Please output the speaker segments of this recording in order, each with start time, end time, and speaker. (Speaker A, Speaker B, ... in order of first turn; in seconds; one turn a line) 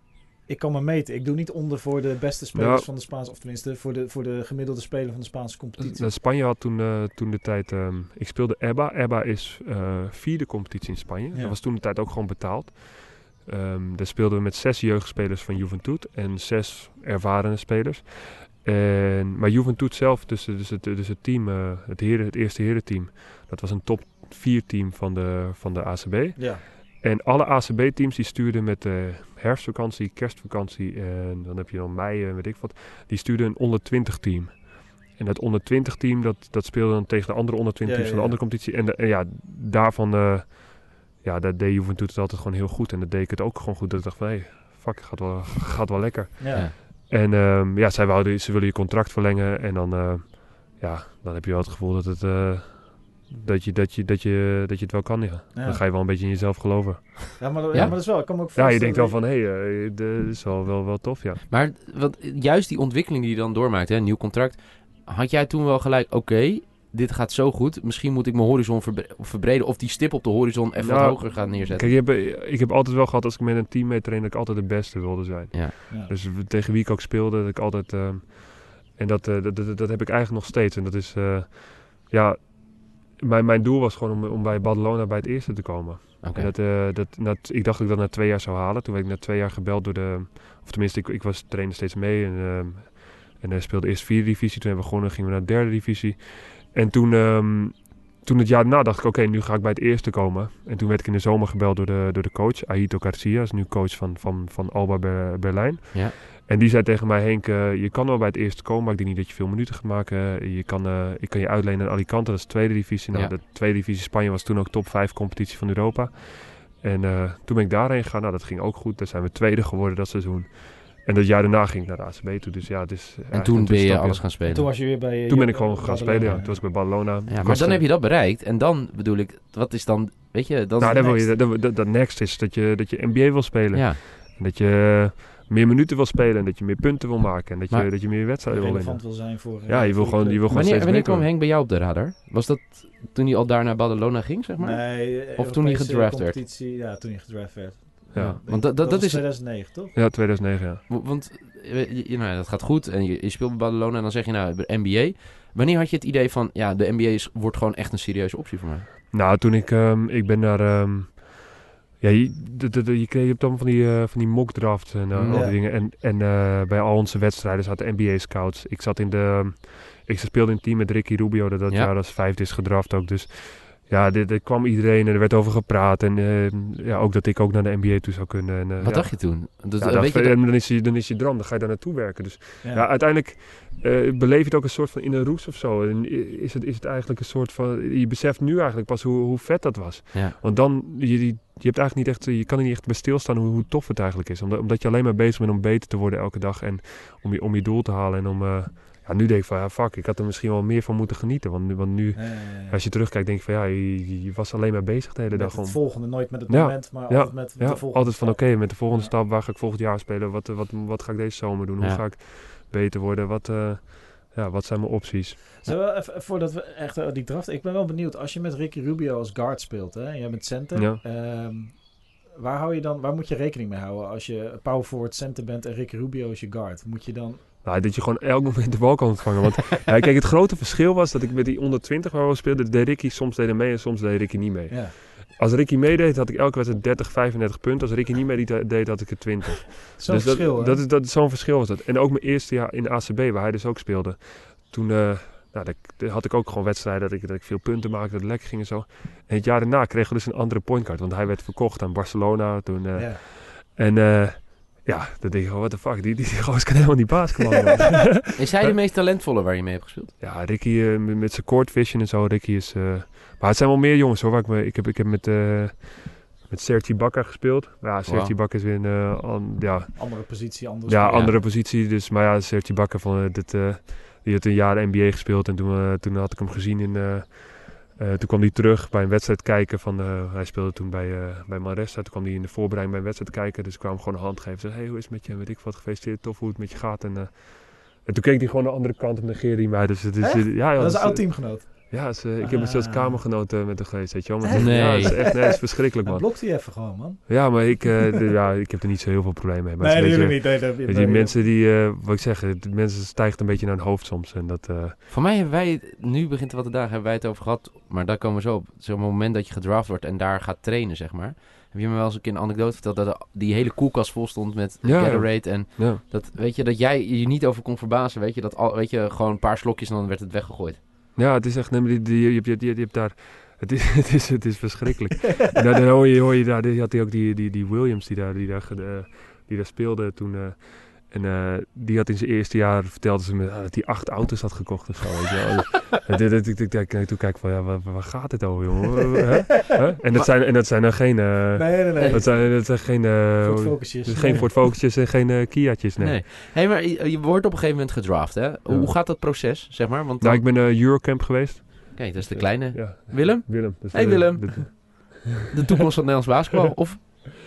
Speaker A: 0.5-6.1
Speaker B: 2.5-2.9
Speaker B: 5.8-61.4
Speaker A: 11.3-11.6
Speaker A: 26.4-26.6
Speaker A: 37.8-38.4
Speaker A: 46.4-46.7
Speaker A: 55.5-55.8
Speaker A: 57.4-59.2
Speaker C: 61.5-72.0
Speaker B: 70.8-124.3
Speaker A: 75.9-76.1
Speaker C: 86.2-86.5
Speaker C: 123.3-124.7
Speaker A: 124.5-126.6
Speaker B: 125.0-127.9
Speaker C: 127.3-131.2
Speaker B: 130.8-141.3
Speaker A: 130.8-131.3
Speaker C: 133.7-134.0
Speaker A: 138.5-140.7
Speaker C: 140.5-146.4
Speaker A: 144.6-149.9
Speaker B: 148.1-148.4
Speaker C: 148.2-149.3
Speaker B: 149.9-150.8
Speaker C: 150.9-158.9
Speaker B: 159.1-215.5
Speaker C: 165.1-165.5
Speaker A: 165.3-165.6
Speaker C: 178.8-180.4
Speaker A: 182.6-182.9
Speaker A: 202.1-202.8
Speaker A: 205.3-209.1
Speaker A: 215.6-227.5
Speaker B: 220.7-221.0
Speaker B: 227.6-258.8
Speaker A: 234.7-234.9
Speaker A: 240.0-240.8
Speaker A: 252.9-253.2
Speaker C: 258.3-260.1
Speaker B: 260.2-305.0
Speaker C: 268.1-268.3
Speaker A: 269.9-271.3
Speaker C: 271.1-271.4
Speaker A: 290.2-293.8
Speaker A: 294.4-298.0
Speaker C: 294.5-295.4
Speaker A: 299.8-301.4
Speaker C: 305.1-320.8
Speaker B: 314.8-316.0
Speaker B: 321.2-346.2
Speaker A: 341.6-342.9
Speaker C: 342.0-342.3
Speaker A: 343.4-344.7
Speaker C: 346.0-350.5
Speaker B: 348.7-349.0
Speaker B: 350.2-355.0
Speaker C: 351.9-357.0